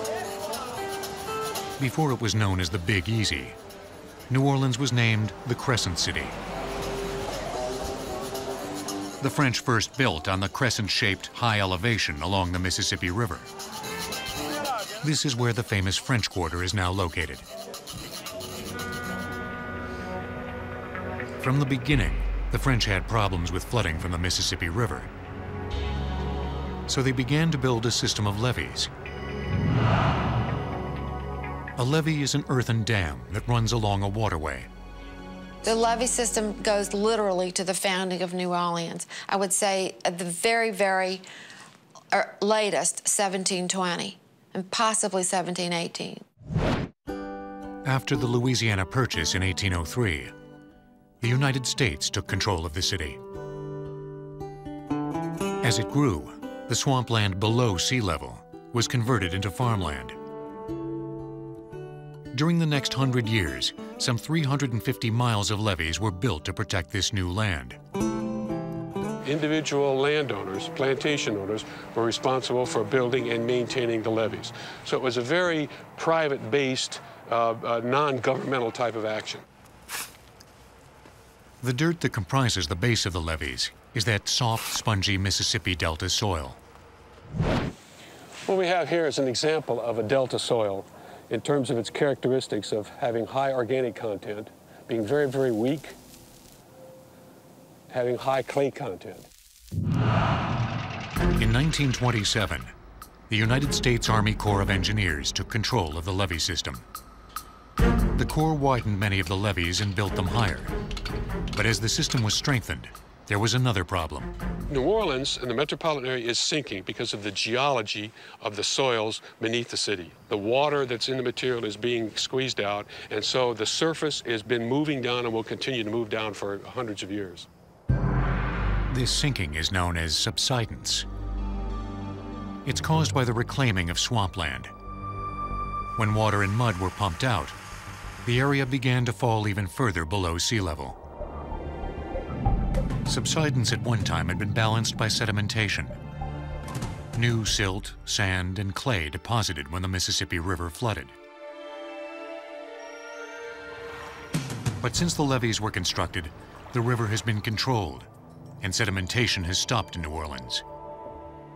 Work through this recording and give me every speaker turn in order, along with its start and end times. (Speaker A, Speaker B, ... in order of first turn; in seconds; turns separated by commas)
Speaker A: 1.8-3.5, Speaker A: 4.3-6.3, Speaker A: 9.2-13.5, Speaker A: 15.0-17.4, Speaker A: 21.4-25.1, Speaker A: 26.9-28.9, Speaker A: 31.8-34.7, Speaker B: 35.6-41.2, Speaker B: 42.1-46.2, Speaker A: 47.8-50.3, Speaker A: 51.2-53.2, Speaker A: 55.6-60.1, Speaker A: 62.3-67.8, Speaker C: 69.2-79.4, Speaker A: 81.6-86.6, Speaker C: 88.5-95.9, Speaker C: 97.9-99.3, Speaker A: 101.4-102.7, Speaker A: 103.3-106.8, Speaker A: 108.2-110.7, Speaker A: 111.5-114.3, Speaker C: 114.7-127.5, Speaker A: 128.9-131.1, Speaker A: 132.6-134.7, Speaker A: 136.0-137.6, Speaker A: 138.2-141.0, Speaker A: 143.1-146.0, Speaker A: 147.1-151.1, Speaker A: 154.8-158.1, Speaker A: 158.6-160.6